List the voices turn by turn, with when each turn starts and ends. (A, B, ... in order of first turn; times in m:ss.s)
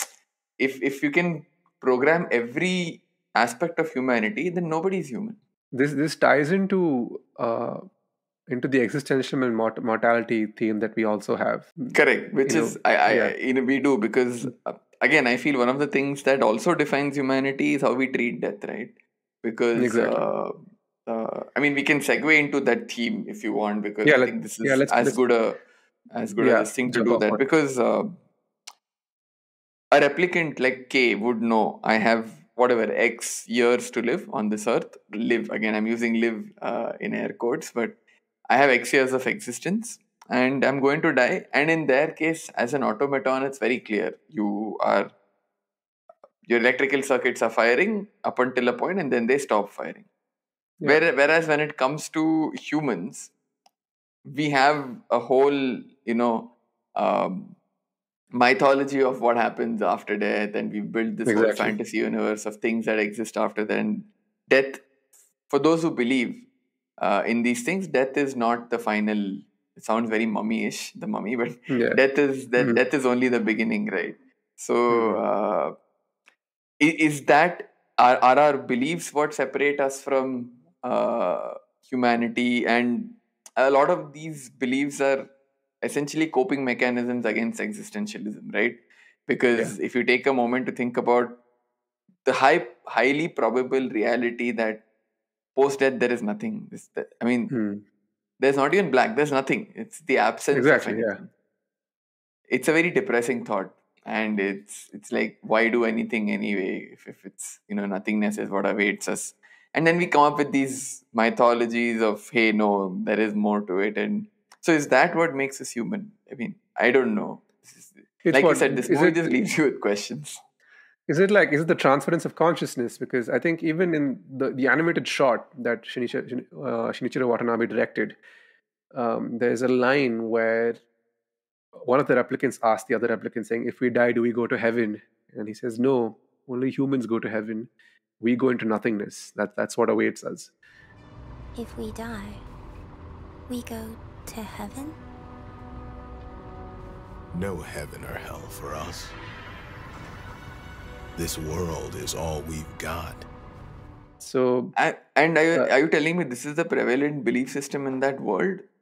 0:00.6-0:05.4 A
0:05.7-0:07.8 B
0:08.5-0:13.3 B
0:11.9-0:25.6 A
0:19.8-0:20.2 B
0:24.0-0:25.2 B
0:26.1-0:28.2 A
0:26.4-0:27.4 B
0:29.9-0:38.0 A
0:38.5-0:45.1 A
0:46.5-0:50.1 A
0:50.8-0:53.3 A
0:54.2-0:57.6 A
0:58.3-1:04.8 A
1:01.2-1:01.8 B
1:05.5-1:06.5 A
1:07.0-1:15.7 A
1:11.7-1:12.0 B
1:14.9-1:15.2 B
1:16.8-1:25.3 A
1:25.8-1:31.4 A
1:32.2-1:34.8 A
1:35.6-1:37.6 A
1:37.5-1:37.8 B
1:38.4-1:41.3 A
1:40.5-1:41.2 B
1:42.5-2:00.4 A
1:58.2-1:59.3 B
2:01.1-2:08.2 B
2:08.9-2:10.8 B
2:11.8-2:17.7 B
2:18.2-2:20.5 B
2:21.5-2:22.4 C
2:23.5-2:25.0 C
2:27.3-2:29.1 D
2:31.2-2:33.2 D
2:34.2-2:34.8 B
2:34.8-2:38.6 A